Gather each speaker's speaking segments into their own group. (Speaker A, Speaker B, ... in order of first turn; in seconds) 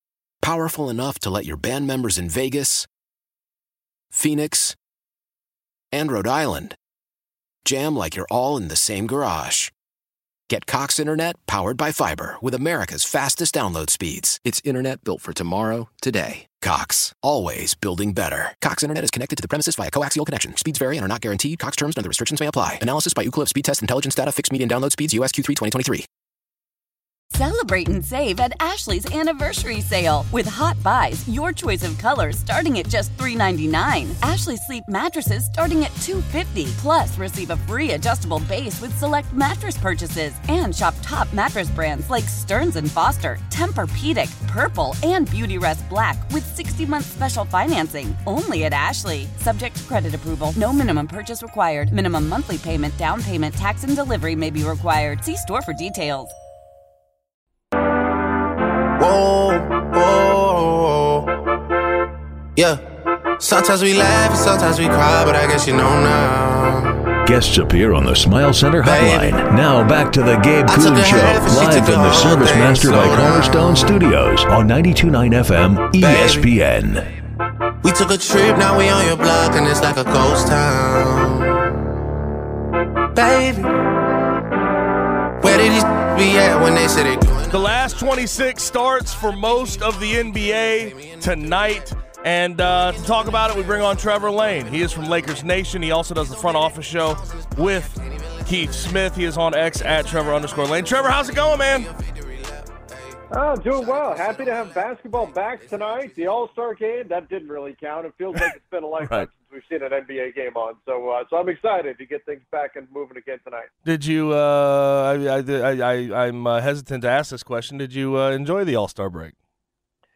Speaker A: 0.4-2.9, 4.1-4.8, 5.9-6.8, 7.6-9.7, 10.5-26.1
Speaker B: 27.3-56.3
Speaker C: 59.0-61.4, 62.5-62.8, 63.4-67.1, 68.8-69.5, 70.7-74.0, 76.0-76.5, 77.8-81.8, 83.1-83.7, 85.4-106.5
Speaker D: 67.2-77.1
Speaker E: 87.5-101.9, 109.0-109.3, 113.8-119.3
Speaker F: 103.3-113.7